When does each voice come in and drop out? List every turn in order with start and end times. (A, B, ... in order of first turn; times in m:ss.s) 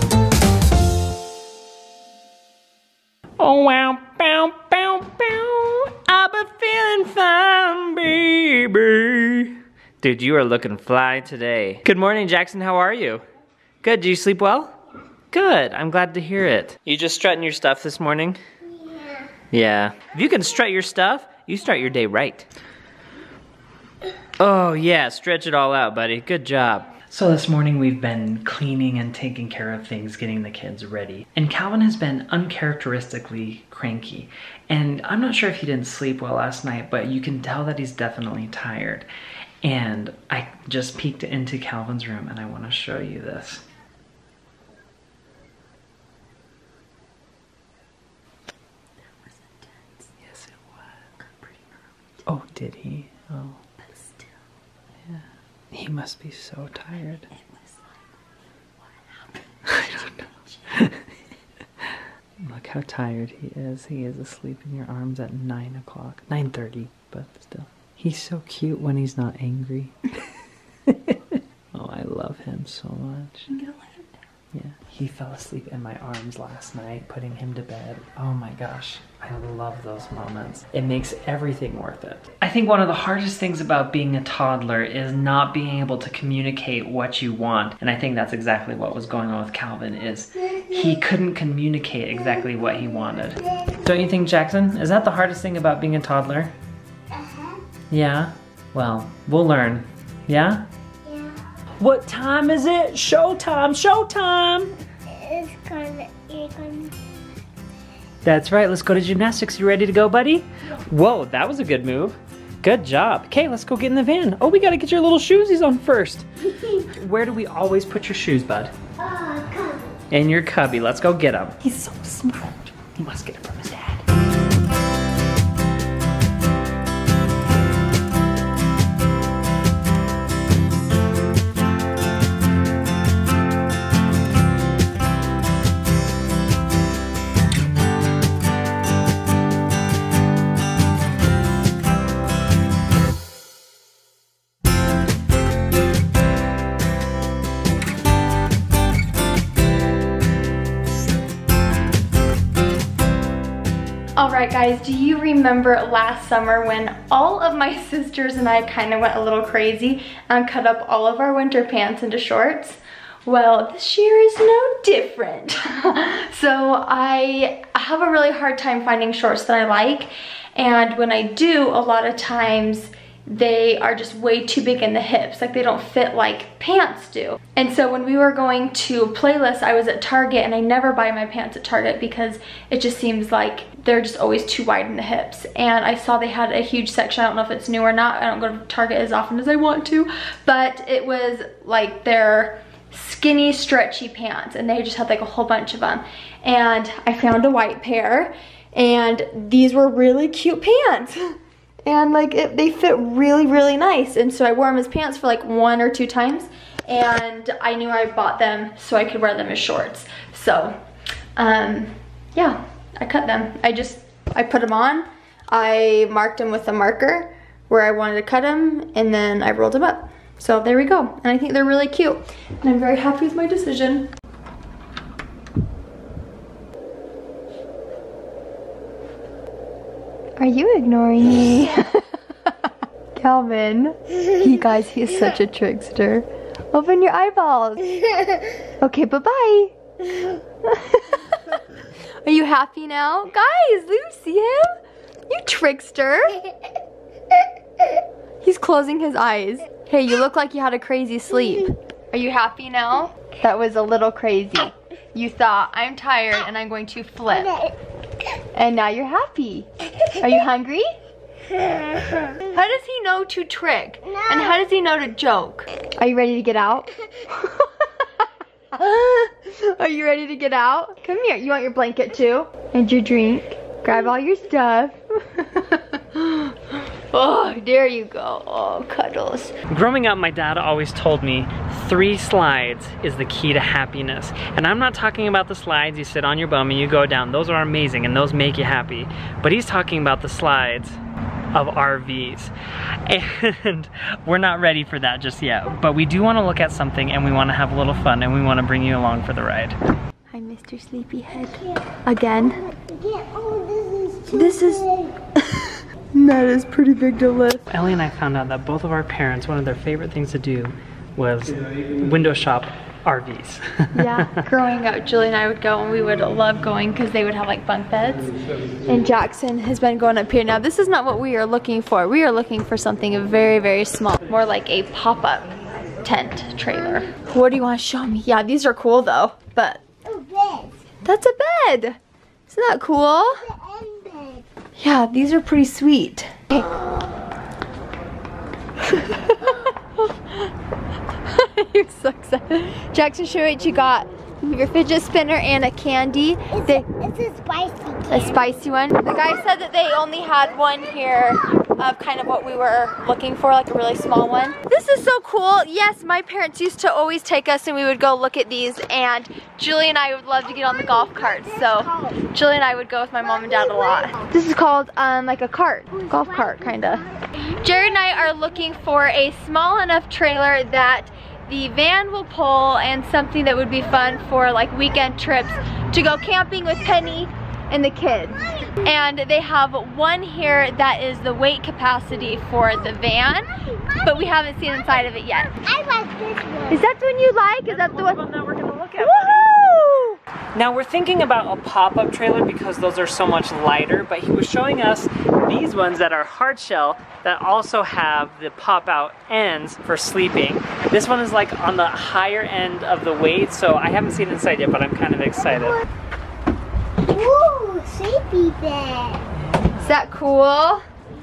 0:03.4-0:13.2 A
0:13.8-0:14.7 A
0:15.3-0:18.4 A
0:19.5-0:22.5 A
0:24.4-0:39.1 A
0:39.6-0:43.6 A
0:50.2-0:50.8 A
0:52.2-0:53.6 A
0:55.1-0:57.3 A
0:59.6-1:01.1 A
1:01.8-1:10.1 A
1:10.9-1:13.5 A
1:13.5-1:14.1 B
1:14.5-1:36.5 A
1:37.2-1:37.5 C
1:37.9-1:40.6 A
1:41.8-1:44.7 A
1:45.2-1:46.9 C
1:48.2-1:58.7 A
1:59.1-1:59.8 C
2:00.1-2:04.0 A
2:34.2-3:30.7 B
3:31.4-3:44.1 B
3:50.4-3:58.0 B
3:58.8-4:01.6 B
4:02.2-4:04.7 B
4:05.3-4:06.4 B
4:08.4-4:17.6 B
4:18.5-4:20.9 B
4:22.3-4:28.1 B
4:28.7-4:39.6 B
4:39.7-4:51.0 A
4:51.5-4:52.5 A
4:53.0-4:59.8 A
5:00.3-5:02.6 B
5:02.7-5:04.5 C
5:04.3-5:07.7 B
5:07.7-5:14.4 A
5:13.9-5:18.2 B
5:18.8-5:25.5 B
5:26.0-5:29.8 B
5:30.1-5:30.7 C
5:31.0-5:32.0 B
5:32.5-5:33.5 B
5:33.5-5:34.4 C
5:34.8-5:36.7 B
5:38.8-5:40.5 B
5:41.2-5:46.9 B
5:46.6-5:48.3 C
5:48.1-6:25.6 B
6:01.4-6:02.2 C
6:03.7-6:04.1 C
6:06.1-6:07.7 C
6:23.9-6:24.2 C
6:25.6-6:26.8 C
6:26.7-6:28.2 B
6:27.6-6:29.5 A
6:29.0-6:30.2 B
6:30.5-6:45.8 A
6:47.2-6:49.2 C
6:49.3-6:49.9 A
6:49.8-6:50.8 B